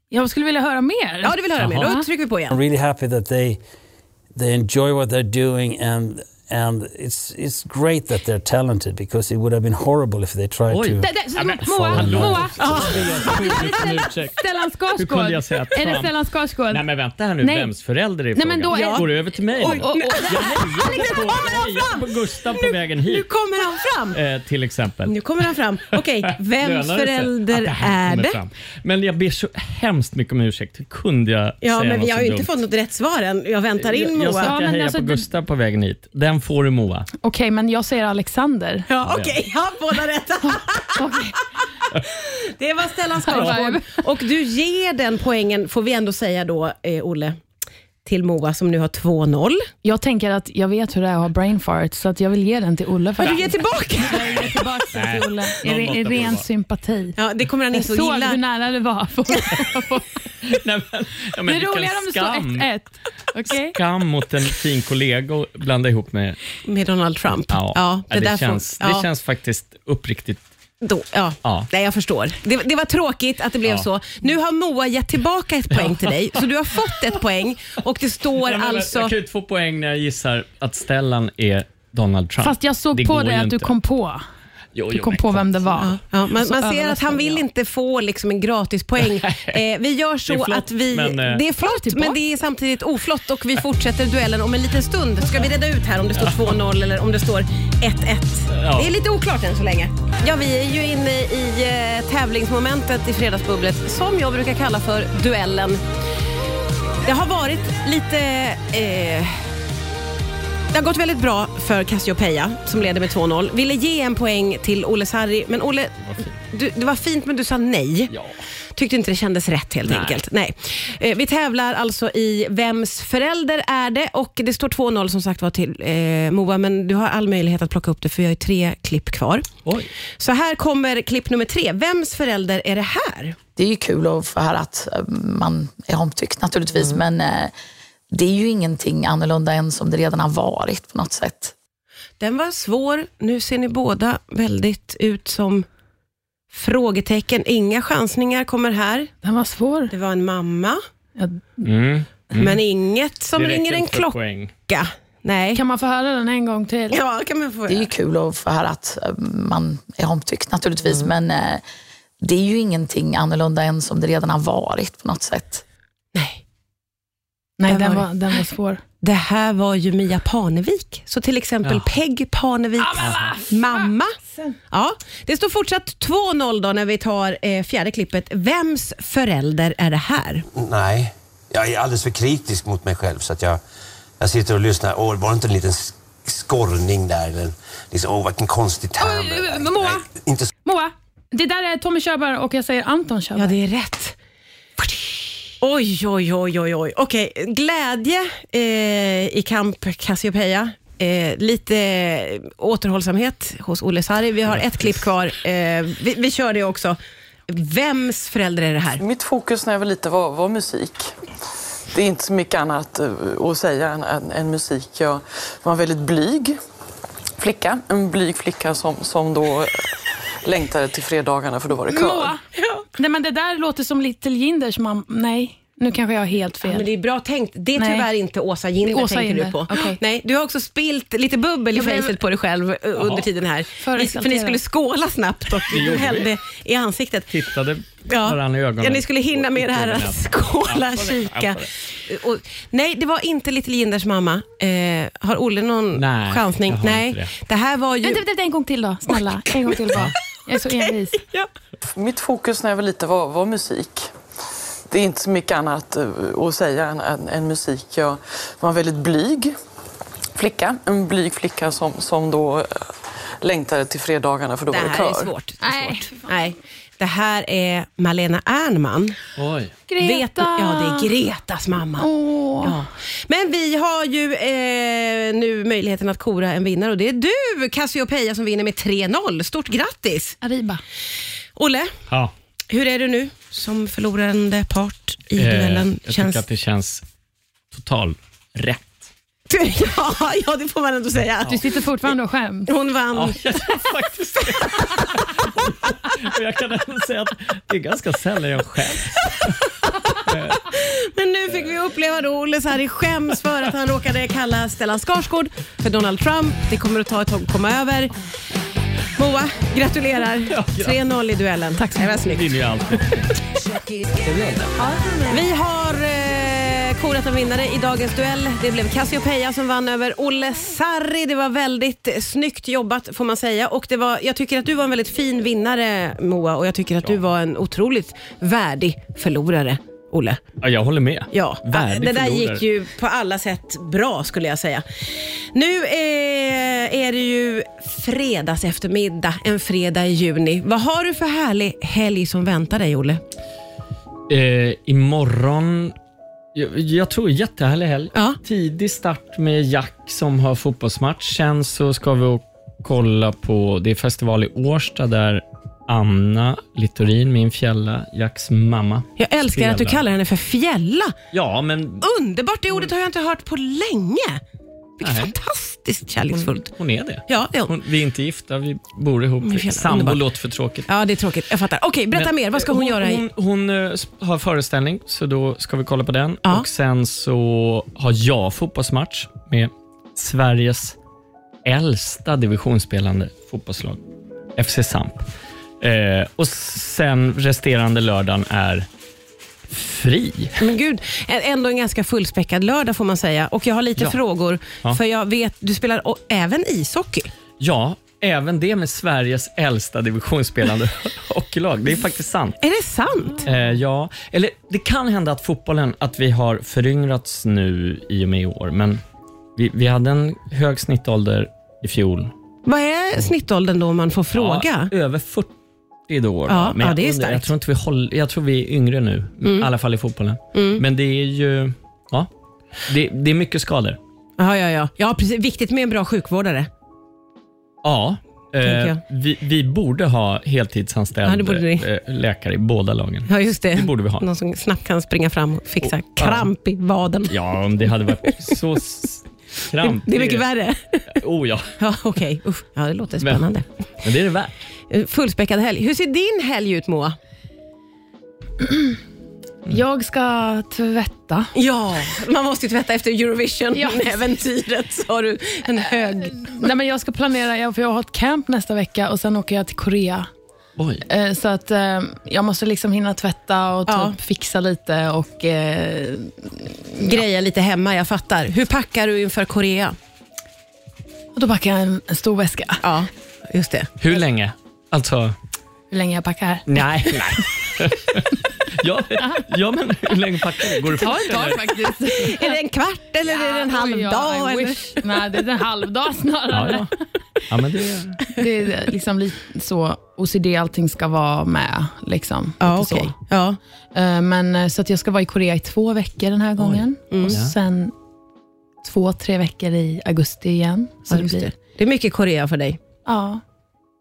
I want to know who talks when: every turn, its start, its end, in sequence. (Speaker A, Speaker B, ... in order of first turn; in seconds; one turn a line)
Speaker A: 0.1-2.0
Speaker B: 1.2-2.5
Speaker C: 1.6-2.0
Speaker D: 2.5-3.6
Speaker D: 4.3-13.3
Speaker C: 10.7-14.4
Speaker A: 11.0-16.8
Speaker B: 12.6-13.7
Speaker C: 14.9-16.1
Speaker C: 16.7-23.3
Speaker A: 17.4-17.7
Speaker A: 18.3-21.5
Speaker B: 18.7-22.0
Speaker B: 22.6-24.2
Speaker C: 24.1-25.2
Speaker B: 25.1-28.4
Speaker C: 26.6-32.5
Speaker B: 31.6-34.5
Speaker C: 33.8-37.1
Speaker A: 34.4-35.3
Speaker A: 37.2-38.9
Speaker B: 38.9-41.2
Speaker C: 39.0-39.4
Speaker A: 40.5-41.4
Speaker B: 42.1-47.4
Speaker A: 43.2-44.0
Speaker C: 43.3-43.6
Speaker B: 48.0-49.7
Speaker A: 49.8-57.2
Speaker B: 53.2-54.4
Speaker C: 54.1-56.5
Speaker B: 57.2-58.4
Speaker A: 57.7-60.1
Speaker C: 60.5-62.7
Speaker A: 61.4-63.8
Speaker C: 63.6-66.4
Speaker B: 66.6-69.0
Speaker C: 67.5-70.4
Speaker B: 70.8-79.1
Speaker C: 71.4-71.7
Speaker C: 75.7-76.2
Speaker C: 78.4-83.7
Speaker A: 82.4-84.2
Speaker C: 84.7-85.9
Speaker A: 84.9-87.4
Speaker B: 85.8-105.8
Speaker C: 89.0-89.6
Speaker C: 90.3-91.4
Speaker A: 91.6-92.2
Speaker C: 98.5-98.9
Speaker B: 107.0-109.4
Speaker B: 110.7-118.1
Speaker C: 116.0-116.3
Speaker C: 118.1-118.4
Speaker B: 118.8-129.5
Speaker C: 119.8-120.2
Speaker B: 130.2-133.4
Speaker E: 133.6-137.5
Speaker E: 138.1-141.5
Speaker B: 142.2-145.7
Speaker B: 146.5-149.1
Speaker A: 149.2-149.9
Speaker B: 149.9-150.8
Speaker A: 151.2-151.7
Speaker C: 151.6-152.6
Speaker B: 152.3-155.6
Speaker C: 153.3-154.5
Speaker A: 155.5-157.0
Speaker B: 156.9-157.9
Speaker E: 157.7-161.6
Speaker E: 162.2-165.6
Speaker B: 166.1-166.4
Speaker A: 167.6-168.8
Speaker B: 167.7-168.1
Speaker B: 169.0-174.1
Speaker A: 172.8-174.5
Speaker C: 173.0-173.3
Speaker B: 174.7-180.4
Speaker F: 180.5-183.6
Speaker F: 184.2-190.5
Speaker A: 189.0-190.0
Speaker A: 190.6-193.5
Speaker B: 193.3-194.1
Speaker B: 195.6-209.0
Speaker G: 209.0-211.1
Speaker G: 211.9-216.6
Speaker G: 217.4-219.9
Speaker G: 220.4-222.3
Speaker A: 221.8-222.4
Speaker B: 222.5-222.8
Speaker A: 223.0-226.9
Speaker B: 226.6-237.3
Speaker A: 227.8-228.1
Speaker A: 228.8-230.0
Speaker A: 231.7-232.1
Speaker C: 233.0-233.2
Speaker A: 233.8-234.6
Speaker C: 235.7-236.3
Speaker C: 237.3-241.7
Speaker B: 238.1-248.2
Speaker C: 245.9-247.3
Speaker A: 248.0-251.2
Speaker B: 249.1-250.1
Speaker B: 250.7-251.5
Speaker G: 251.9-254.1
Speaker G: 254.9-259.5
Speaker G: 260.3-265.3
Speaker B: 264.7-269.2
Speaker A: 265.6-266.5
Speaker C: 269.4-269.7
Speaker A: 269.9-271.1
Speaker B: 270.0-280.4
Speaker A: 272.0-272.8
Speaker A: 280.4-280.8
Speaker B: 281.6-281.9
Speaker B: 282.7-286.4
Speaker C: 285.4-287.0
Speaker C: 287.7-289.1
Speaker B: 289.5-291.8
Speaker A: 291.4-292.7
Speaker B: 292.7-295.1
Speaker C: 293.1-299.6
Speaker B: 300.1-308.1
Speaker C: 300.2-300.7
Speaker B: 309.2-312.6
Speaker C: 310.5-311.0
Speaker A: 311.8-312.1
Speaker C: 312.2-313.3
Speaker C: 314.2-314.7
Speaker A: 314.8-315.4
Speaker B: 315.3-330.4
Speaker C: 330.6-332.6
Speaker B: 331.3-334.8
Speaker B: 335.5-343.2
Speaker C: 344.3-345.9
Speaker C: 346.5-360.1
Speaker B: 348.1-348.4
Speaker B: 359.2-361.1
Speaker C: 361.3-362.1
Speaker B: 362.0-364.4
Speaker B: 365.0-366.7
Speaker C: 365.0-365.3
Speaker C: 366.3-370.9
Speaker B: 367.3-367.7
Speaker B: 369.4-370.2
Speaker B: 370.9-373.2
Speaker C: 372.1-380.9
Speaker C: 381.6-384.0
Speaker C: 384.6-385.3
Speaker C: 385.8-388.9
Speaker C: 389.7-390.6
Speaker B: 390.6-397.3
Speaker C: 397.6-402.6
Speaker B: 402.6-403.5
Speaker C: 403.4-409.0
Speaker C: 409.6-412.3
Speaker B: 412.6-414.9
Speaker C: 414.3-415.5
Speaker C: 416.1-422.3
Speaker B: 416.5-417.5
Speaker B: 419.4-419.7
Speaker B: 420.5-420.8
Speaker C: 422.9-424.0
Speaker B: 424.4-426.7
Speaker C: 427.8-434.2
Speaker B: 428.6-429.0
Speaker B: 431.2-431.9
Speaker B: 433.3-437.4
Speaker C: 435.8-436.5
Speaker C: 437.3-440.5
Speaker B: 438.0-438.6
Speaker B: 439.8-441.2
Speaker C: 441.1-441.7
Speaker B: 441.8-443.7
Speaker C: 443.2-443.5
Speaker C: 444.0-444.5
Speaker B: 444.9-447.1
Speaker A: 448.6-448.9
Speaker A: 449.7-451.5
Speaker B: 451.5-456.5
Speaker A: 453.7-454.1
Speaker A: 455.8-460.3
Speaker C: 460.8-461.0
Speaker A: 461.1-467.1
Speaker B: 463.9-464.1
Speaker B: 467.0-470.0
Speaker A: 471.3-472.8
Speaker B: 472.8-474.0
Speaker C: 474.0-475.4
Speaker A: 475.9-477.4
Speaker C: 476.6-482.1
Speaker A: 479.2-479.4
Speaker A: 480.9-482.6
Speaker B: 482.1-485.4
Speaker A: 483.2-486.9
Speaker C: 486.5-486.9
Speaker C: 487.5-488.3
Speaker A: 488.3-493.1
Speaker B: 492.6-493.6
Speaker A: 493.9-497.9
Speaker C: 496.6-497.5
Speaker A: 498.8-501.5
Speaker B: 501.1-502.8
Speaker A: 503.1-503.4